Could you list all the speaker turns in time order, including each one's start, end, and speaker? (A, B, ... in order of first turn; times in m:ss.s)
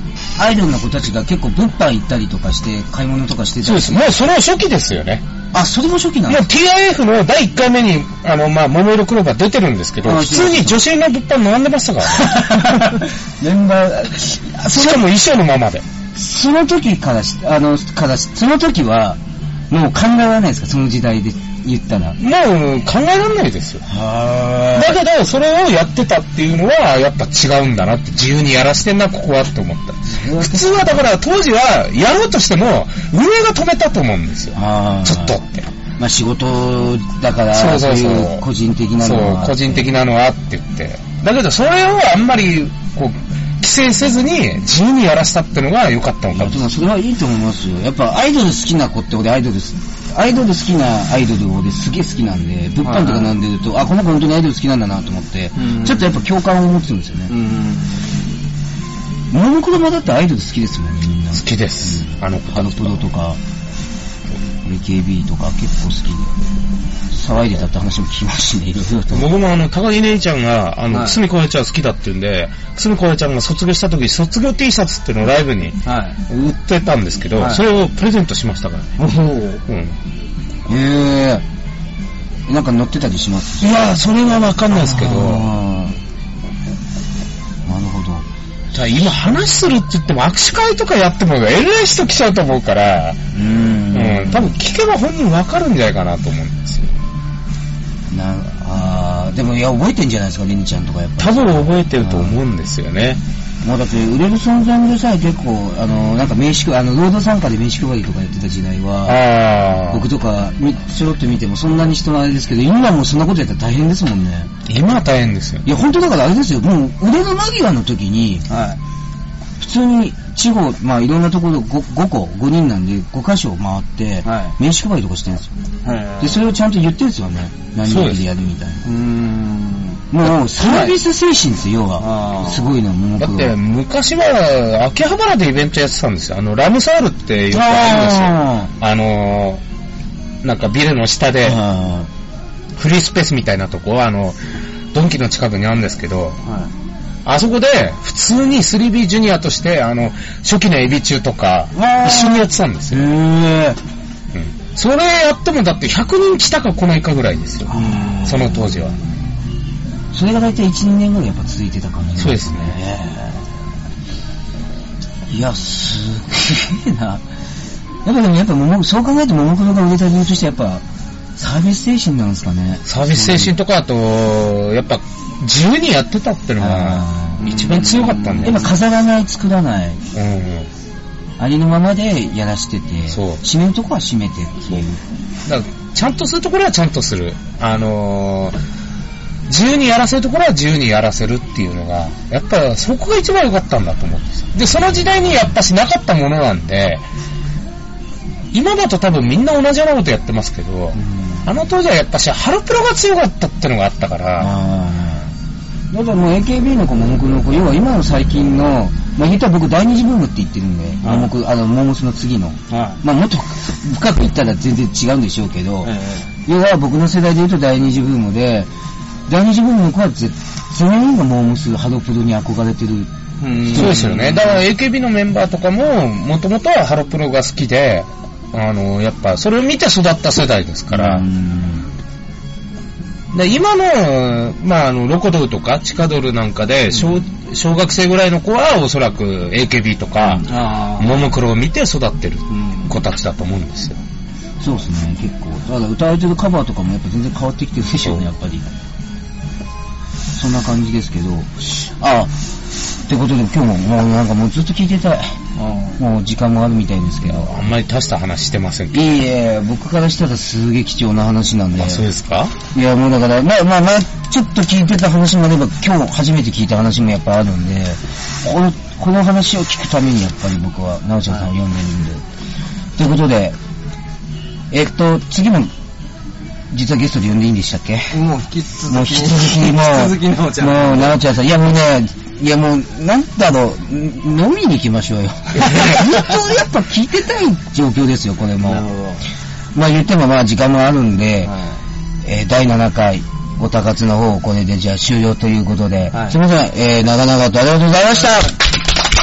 0:00.4-0:04.2 A
0:03.6-0:05.2 B
0:05.5-0:06.4 A
0:06.3-0:13.0 B
0:10.0-0:10.8 A
0:12.1-0:15.0 A
0:14.7-0:15.8 B
0:16.2-0:19.2 A
0:19.7-0:22.2 A
0:22.2-0:23.8 B
0:23.9-0:25.0 A
0:24.7-0:35.7 B
0:30.1-0:30.9 A
0:34.5-0:35.4 A
0:36.0-0:39.9 A
0:37.5-0:38.4 B
0:39.0-0:46.6 B
0:46.3-0:57.3 A
0:52.8-0:53.3 C
0:55.6-0:56.2 C
0:57.3-0:58.3 C
0:59.3-1:03.4 A
1:01.4-1:03.0 B
1:04.6-1:06.4 A
1:07.1-1:09.3 A
1:09.1-1:19.0 B
1:10.9-1:11.2 C
1:15.8-1:16.2 C
1:17.3-1:17.6 C
1:19.0-1:19.6 C
1:19.7-1:20.0 B
1:20.6-1:21.4 A
1:22.5-1:23.8 A
1:23.6-1:25.5 B
1:24.7-1:26.0 A
1:27.6-1:28.2 A
1:28.7-1:33.2 B
1:33.3-1:34.6 A
1:33.9-1:36.9 B
1:38.1-1:42.4 A
1:41.2-1:43.2 B
1:43.6-1:49.2 A
1:49.0-1:50.0 B
1:49.9-1:54.5 A
1:54.6-1:55.6 B
1:55.6-1:58.4 A
1:58.5-1:58.8 C
1:59.6-2:05.5 A
2:04.2-2:04.6 C
2:05.8-2:06.4 C
2:06.2-2:08.8 A
2:07.8-2:08.2 B
2:08.8-2:10.0 C
2:10.1-2:13.6 A
2:10.6-2:11.0 C
2:12.0-2:12.7 C
2:13.2-2:19.6 B
2:17.5-2:18.7 A
2:20.4-2:21.6 B
2:21.4-2:22.1 A
2:22.8-2:24.4 B
2:24.9-2:26.4 B
2:26.4-2:26.7 C
2:27.2-2:33.1 B
2:31.7-2:33.8 A
2:34.3-2:37.7 B
2:37.7-2:38.6 A
2:37.7-2:38.6 C
2:38.2-2:39.0 B
2:40.1-2:43.4 A
2:42.2-2:42.8 B
2:45.3-2:47.2 A
2:48.0-2:50.8 A
2:51.4-2:53.5 A
2:52.9-2:58.7 B
2:56.6-2:57.4 A
2:57.4-2:58.7 C
2:58.4-3:00.0 A
3:00.1-3:00.7 B
3:01.4-3:05.0 A
3:03.1-3:03.4 B
3:05.4-3:08.6 B
3:09.5-3:17.0 B
3:18.5-3:24.5 B
3:20.9-3:21.5 A
3:24.4-3:25.3 A
3:25.9-3:35.9 A
3:31.0-3:31.3 C
3:32.7-3:33.0 C
3:35.8-3:36.3 C
3:36.4-3:38.7 A
3:39.3-3:43.1 A
3:43.4-3:44.6 C
3:43.6-3:44.0 A
3:43.7-3:51.2 B
3:50.9-3:51.9 A
3:53.3-4:04.0 B
4:00.4-4:01.3 C
4:02.5-4:03.0 C
4:04.6-4:08.6 A
4:10.3-4:12.3 A
4:13.0-4:15.3 A
4:15.6-4:16.0 C
4:16.0-4:17.7 A
4:17.2-4:19.1 B
4:18.9-4:22.0 A
4:21.8-4:22.5 B
4:22.7-4:32.2 A
4:33.0-4:33.6 A
4:34.7-4:35.7 A
4:36.7-4:38.1 A
4:38.1-4:41.2 C
4:38.9-4:48.8 A
4:45.5-4:46.2 B
4:48.6-4:49.2 C
4:49.7-4:51.5 A
4:51.4-4:51.8 C
4:52.2-4:58.8 A
4:56.1-4:56.4 C